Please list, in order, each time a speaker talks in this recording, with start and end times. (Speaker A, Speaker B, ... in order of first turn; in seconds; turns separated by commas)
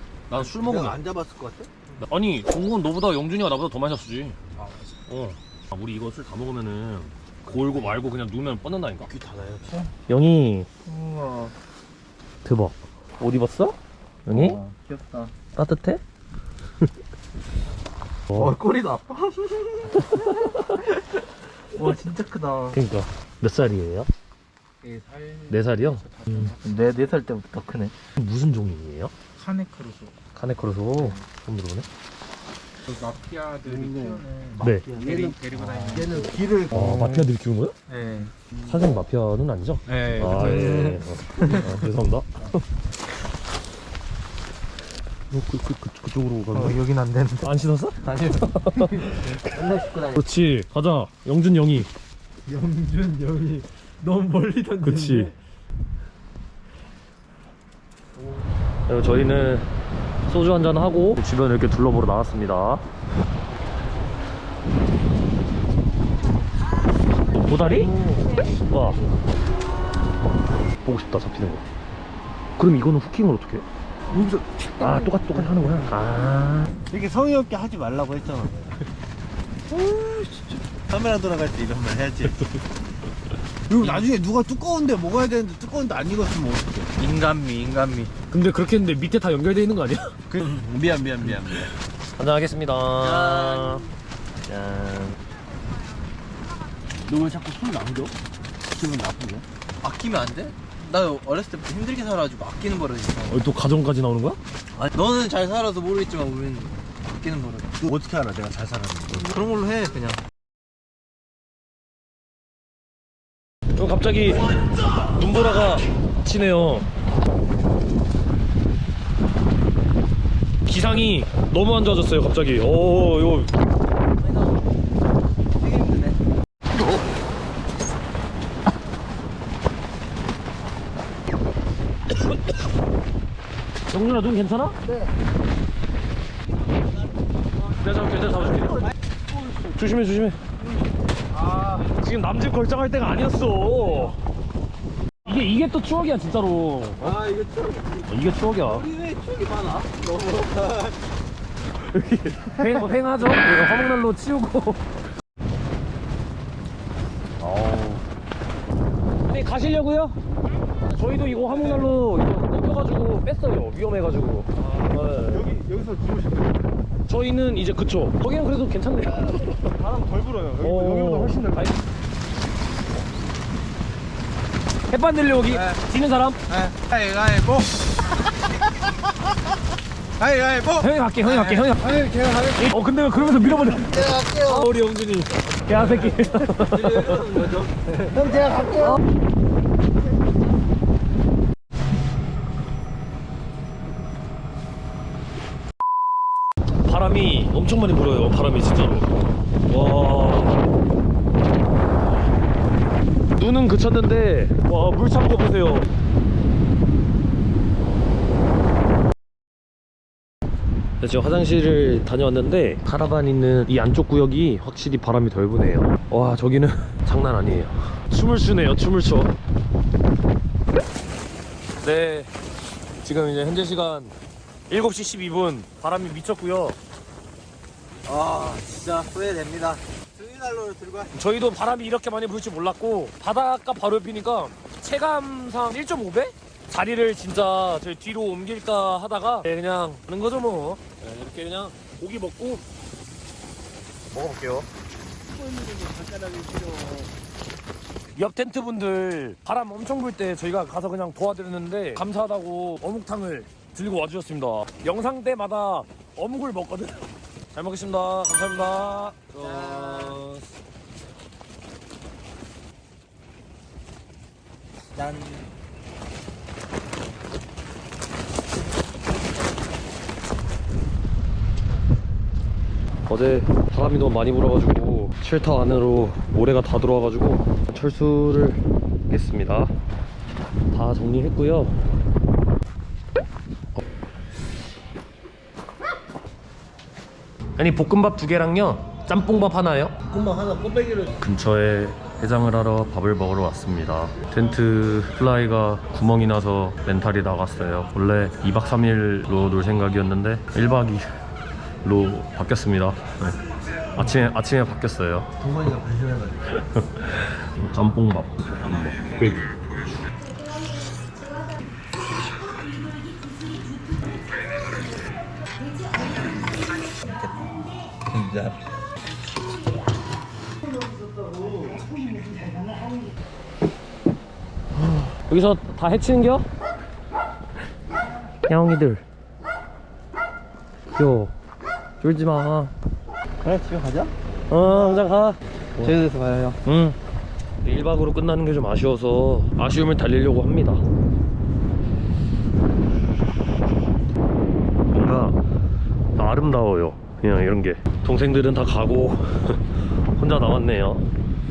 Speaker A: 0.3-1.0, Speaker B: 0.3-1.9, Speaker A: 2.0-4.4, Speaker C: 4.6-4.9, Speaker A: 5.1-9.1, Speaker B: 9.1-9.9, Speaker A: 10.1-10.7, Speaker C: 10.8-11.6, Speaker A: 12.4-14.6, Speaker C: 14.3-15.3, Speaker A: 15.6-16.0, Speaker A: 18.3-18.6, Speaker C: 18.3-21.2, Speaker C: 21.7-22.8, Speaker A: 22.7-24.1, Speaker D: 24.8-26.9, Speaker A: 25.5-26.5, Speaker C: 26.6-27.9, Speaker A: 28.2-29.1, Speaker D: 29.4-30.2, Speaker A: 30.3-31.9, Speaker D: 32.9-36.3, Speaker B: 33.6-34.2, Speaker C: 34.5-36.4, Speaker A: 34.6-34.9, Speaker B: 34.9-37.2, Speaker A: 36.7-37.8, Speaker D: 37.9-38.4, Speaker A: 38.6-42.5, Speaker D: 39.9-40.9, Speaker C: 40.4-41.7, Speaker A: 45.3-46.8, Speaker C: 46.5-50.2, Speaker A: 47.4-48.0, Speaker A: 48.5-49.4, Speaker A: 50.1-51.9, Speaker C: 52.5-55.3, Speaker A: 54.8-55.3, Speaker A: 58.9-59.7, Speaker A: 60.3-62.8, Speaker A: 67.3-69.1, Speaker B: 67.6-68.4, Speaker A: 70.8-71.6, Speaker A: 72.6-73.7, Speaker B: 74.1-75.5, Speaker A: 74.8-76.7, Speaker B: 76.9-78.8, Speaker C: 79.7-80.7, Speaker B: 80.8-82.4, Speaker B: 83.7-86.9, Speaker C: 87.0-88.1, Speaker A: 88.3-90.1, Speaker B: 90.3-91.7, Speaker A: 92.2-93.9, Speaker C: 93.0-93.9, Speaker A: 94.5-95.2, Speaker B: 97.0-98.2, Speaker B: 98.7-99.5, Speaker C: 99.8-103.3, Speaker A: 103.2-104.4, Speaker C: 104.8-107.8, Speaker B: 107.8-109.3, Speaker C: 109.3-110.2, Speaker A: 113.8-114.5, Speaker A: 115.0-116.9, Speaker A: 120.7-123.5, Speaker C: 124.2-124.9, Speaker C: 125.5-126.3, Speaker A: 133.9-134.8, Speaker A: 137.8-138.9, Speaker B: 139.3-139.7, Speaker A: 139.7-140.4, Speaker A: 141.7-144.2, Speaker A: 145.2-147.1, Speaker B: 147.0-148.1, Speaker A: 148.1-148.9, Speaker B: 148.7-150.2, Speaker C: 149.9-150.9, Speaker A: 151.8-154.8, Speaker A: 157.4-158.1, Speaker A: 159.2-160.2, Speaker B: 160.9-161.9, Speaker A: 160.9-165.5, Speaker B: 164.6-166.7, Speaker A: 167.1-169.7, Speaker B: 169.7-171.8, Speaker A: 170.6-171.8, Speaker A: 174.9-176.4, Speaker C: 175.5-175.8, Speaker C: 176.5-178.0, Speaker C: 180.2-181.6, Speaker A: 180.8-181.9, Speaker B: 181.6-186.3, Speaker A: 182.6-187.2, Speaker C: 186.4-188.2, Speaker B: 188.0-189.0, Speaker A: 196.8-199.1, Speaker A: 199.7-200.6, Speaker A: 203.3-205.9, Speaker A: 211.0-219.4, Speaker A: 221.8-222.3, Speaker A: 223.0-224.1, Speaker A: 224.7-226.8, Speaker C: 228.1-231.1, Speaker A: 231.1-242.6, Speaker A: 244.1-244.7, Speaker B: 245.3-247.1, Speaker A: 248.1-260.5, Speaker C: 259.2-260.2, Speaker C: 264.9-265.5, Speaker A: 273.1-279.7, Speaker A: 280.7-281.8, Speaker A: 287.6-290.0, Speaker B: 290.0-291.2, Speaker A: 291.2-301.1, Speaker A: 301.8-303.4, Speaker A: 303.9-305.3, Speaker B: 305.4-306.5, Speaker A: 306.7-308.4, Speaker C: 308.6-309.0, Speaker A: 309.0-310.0, Speaker C: 317.0-318.7, Speaker A: 324.8-326.5, Speaker A: 328.4-329.0, Speaker A: 330.9-331.3, Speaker A: 332.0-332.7, Speaker C: 333.4-335.1, Speaker A: 334.5-336.0, Speaker C: 335.8-336.6, Speaker A: 336.6-337.0, Speaker A: 337.6-340.8, Speaker A: 344.9-345.4, Speaker A: 346.1-351.1